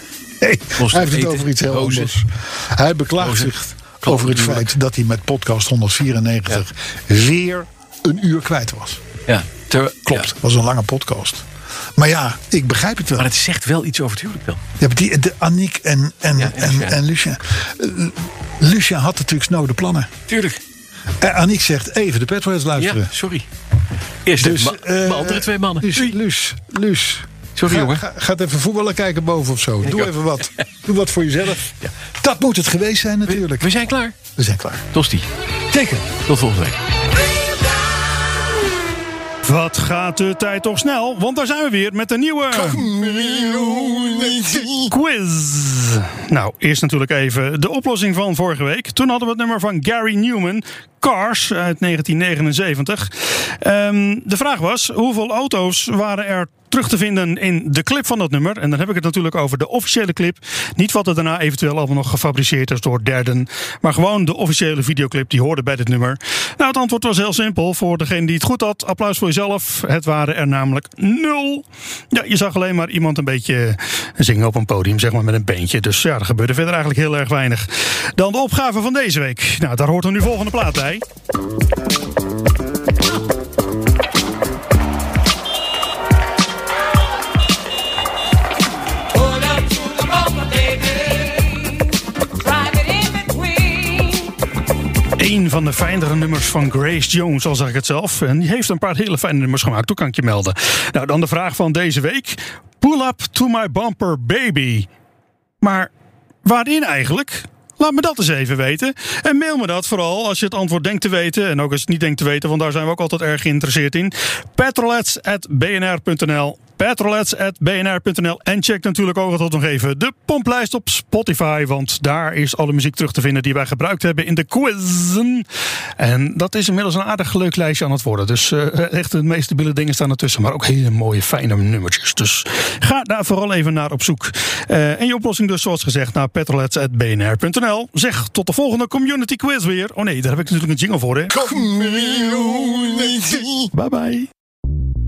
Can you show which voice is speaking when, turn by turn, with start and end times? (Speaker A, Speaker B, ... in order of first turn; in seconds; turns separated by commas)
Speaker A: 0.4-9.0, Speaker B: 0.7-2.2, Speaker B: 3.2-4.7, Speaker B: 9.3-10.3, Speaker A: 10.1-13.3, Speaker B: 13.2-14.6, Speaker A: 14.8-20.1, Speaker B: 16.4-17.0, Speaker B: 20.3-20.6, Speaker A: 21.2-23.1, Speaker B: 22.8-23.5, Speaker B: 24.2-26.2, Speaker A: 24.4-33.7, Speaker B: 27.6-28.1, Speaker B: 29.8-30.6, Speaker B: 33.3-34.2, Speaker A: 34.4-34.9, Speaker B: 34.9-35.3, Speaker A: 35.7-36.1, Speaker B: 36.2-36.8, Speaker C: 39.4-42.9, Speaker A: 42.8-44.8, Speaker C: 44.9-81.0, Speaker D: 89.2-91.7, Speaker D: 92.4-94.3, Speaker C: 95.2-104.9, Speaker C: 105.6-105.9, Speaker C: 106.4-125.5, Speaker C: 126.0-141.6, Speaker A: 141.6-142.9, Speaker C: 143.7-144.3